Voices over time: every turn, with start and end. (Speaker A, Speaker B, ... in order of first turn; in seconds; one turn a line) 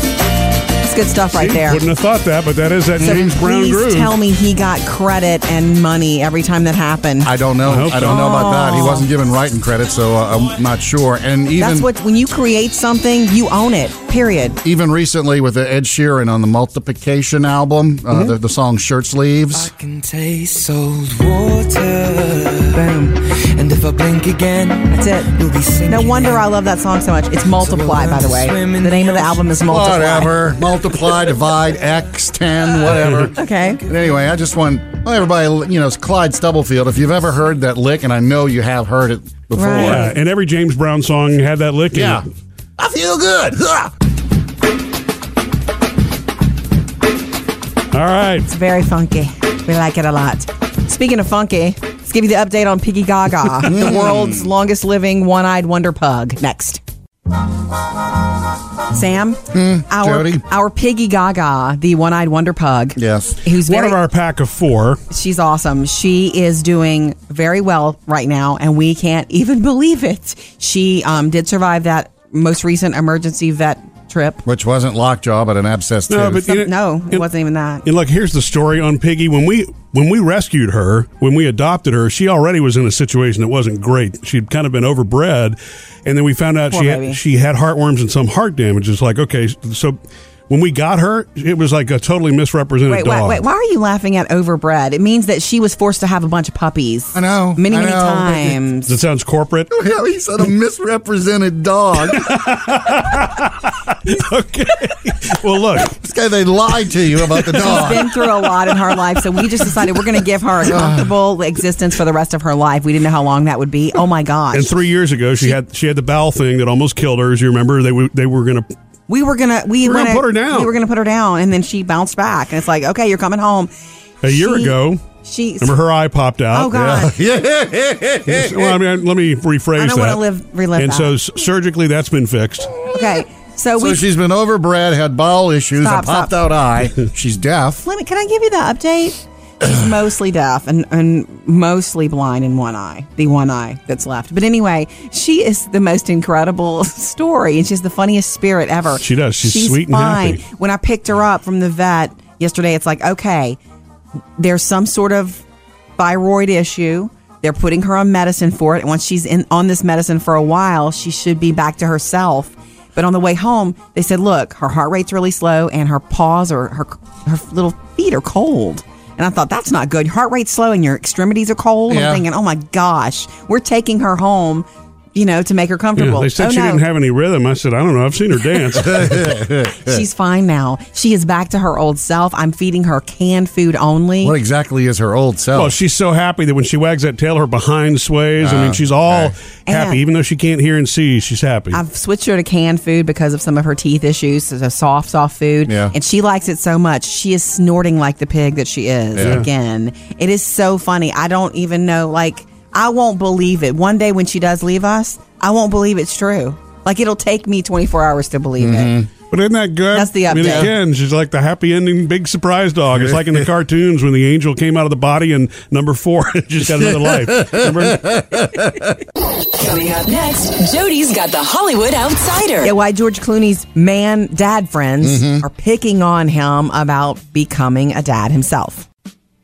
Speaker A: 0.8-1.8
Speaker B: 1.3-4.1
Speaker C: 3.0-3.3
Speaker A: 3.0-7.3
Speaker C: 7.2-11.9
Speaker B: 7.7-8.3
Speaker A: 7.9-9.1
Speaker A: 11.6-14.6
Speaker C: 14.6-19.7
Speaker D: 19.5-26.5
Speaker A: 22.7-23.2
Speaker A: 24.9-25.3
Speaker A: 25.9-30.4
Speaker D: 27.6-29.5
Speaker C: 29.7-40.1
Speaker A: 33.4-33.8
Speaker A: 39.5-40.1
Speaker B: 39.8-42.2
Speaker C: 41.9-42.2
Speaker C: 42.8-43.9
Speaker B: 47.9-48.5
Speaker A: 48.5-56.8
Speaker C: 53.6-54.5
Speaker A: 58.9-64.0
Speaker C: 59.5-60.4
Speaker C: 63.0-63.4
Speaker B: 63.6-65.0
Speaker A: 65.1-74.4
Speaker C: 74.5-76.5
Speaker B: 76.1-77.2
Speaker A: 76.4-77.9
Speaker B: 77.8-93.4
Speaker A: 86.7-87.2
Speaker A: 92.9-99.0
Speaker C: 97.1-98.6
Speaker B: 98.9-99.7
Speaker C: 99.7-102.4
Speaker B: 102.2-106.0
Speaker C: 105.9-108.1
Speaker B: 107.4-107.8
Speaker A: 107.6-114.7
Speaker C: 110.7-111.1
Speaker B: 114.5-118.7
Speaker A: 119.1-123.7
Speaker B: 119.8-120.7
Speaker B: 124.2-125.0
Speaker A: 124.2-125.8
Speaker B: 125.6-126.7
Speaker A: 126.5-127.2
Speaker C: 126.7-128.8
Speaker B: 128.3-130.2
Speaker A: 129.8-131.1
Speaker B: 130.8-132.7
Speaker A: 132.9-134.0
Speaker C: 133.8-137.9
Speaker A: 135.8-136.4
Speaker A: 137.9-153.6
Speaker B: 149.0-150.4
Speaker A: 154.4-155.4
Speaker A: 156.0-176.8
Speaker C: 171.9-172.2
Speaker B: 176.0-179.2
Speaker C: 178.7-180.0
Speaker A: 179.8-184.4
Speaker C: 184.2-185.8
Speaker B: 185.6-191.8
Speaker C: 188.4-189.3
Speaker A: 189.7-190.0
Speaker A: 191.7-209.0
Speaker C: 195.7-195.9
Speaker C: 199.2-199.5
Speaker B: 199.2-199.5
Speaker C: 208.6-209.1
Speaker B: 209.3-218.1
Speaker A: 209.9-210.7
Speaker C: 210.4-210.7
Speaker C: 216.7-219.0
Speaker E: 219.5-222.7
Speaker A: 222.6-228.8
Speaker C: 225.0-225.4